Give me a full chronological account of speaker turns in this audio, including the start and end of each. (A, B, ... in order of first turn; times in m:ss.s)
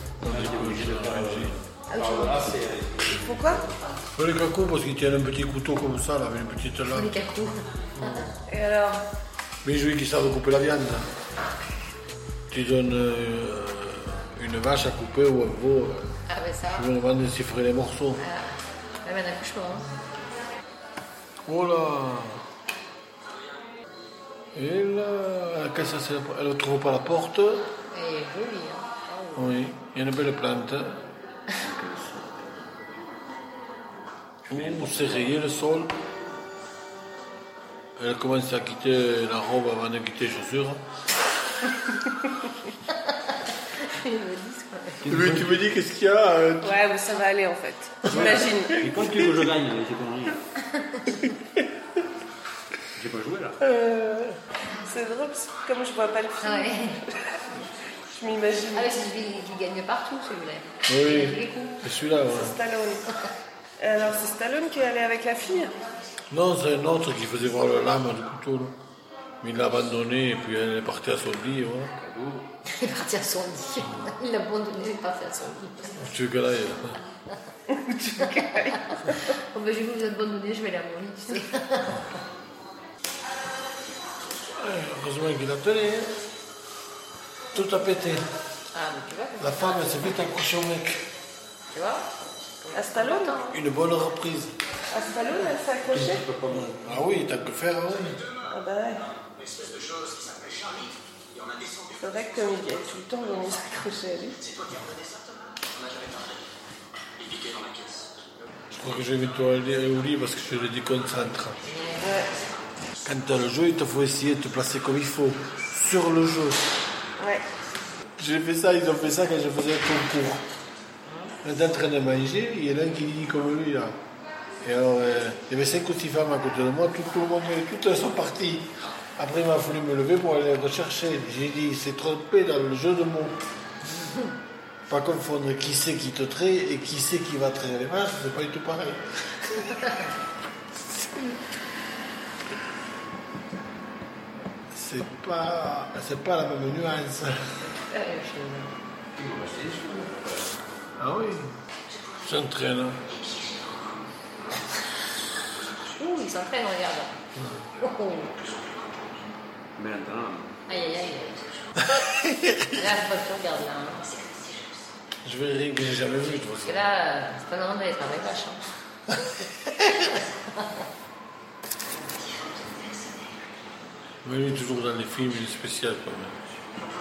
0:00.2-0:01.6 A
0:00.3-0:03.2 B
0:03.1-0:03.6 C
0:04.2-0:07.2 A
0:06.9-0:08.2 D
0:08.5-0:09.0 C
0:09.6-0:11.0 A
0:12.5-0:16.1 A
0:16.3-0:16.9 D
0:16.7-0:18.2 A
0:18.2-0:19.9 D
0:21.5-0:22.4 A
0:24.6-0:27.6 A
0:27.9-0:29.6 D
0:29.3-0:31.0 A
0:34.5-0:35.9 A
0:34.6-0:35.2 B
0:38.0-0:40.8 A
0:45.0-0:46.8 A
0:45.1-0:45.4 B
0:46.6-0:49.3 C
0:48.1-0:50.4 B
0:53.0-0:53.6 B
0:53.6-0:57.3 C
0:56.4-0:57.0 D
0:58.1-0:59.0 C
0:58.7-1:01.8 D
1:00.9-1:02.5 A
1:02.3-1:03.0 C
1:03.8-1:05.8 C
1:06.3-1:08.8 A
1:09.4-1:11.9 A
1:12.1-1:12.4 B
1:12.7-1:16.1 D
1:16.1-1:17.0 A
1:17.7-1:19.2 C
1:19.5-1:21.8 D
1:24.6-1:26.1 A
1:27.5-1:28.2 A
1:28.7-1:30.1 D
1:29.4-1:31.0 A
1:31.7-1:32.1 D
1:32.6-1:33.5 D
1:32.7-1:33.5 C
1:33.5-1:34.5 A
1:34.9-1:36.3 C
1:36.5-1:38.2 A
1:38.5-1:39.0 C
1:42.0-1:44.4 C
1:48.7-1:51.6 A
1:51.7-1:52.0 D
1:52.0-1:52.3 C
1:53.0-1:56.7 A
1:57.2-1:57.4 C
1:58.2-2:00.4 A
2:01.4-2:04.0 A
2:04.6-2:13.4 A
2:14.9-2:19.0 A
2:24.7-2:27.3 A
2:27.9-2:28.7 D
2:29.2-2:30.4 B
2:31.0-2:31.5 A
2:32.2-2:33.0 A
2:36.0-2:37.2 D
2:37.8-2:38.3 D
2:39.8-2:40.5 B
2:40.7-2:41.5 D
2:42.8-2:44.2 D
2:45.2-2:46.9 A
2:46.6-2:48.6 D
2:54.2-2:56.4 A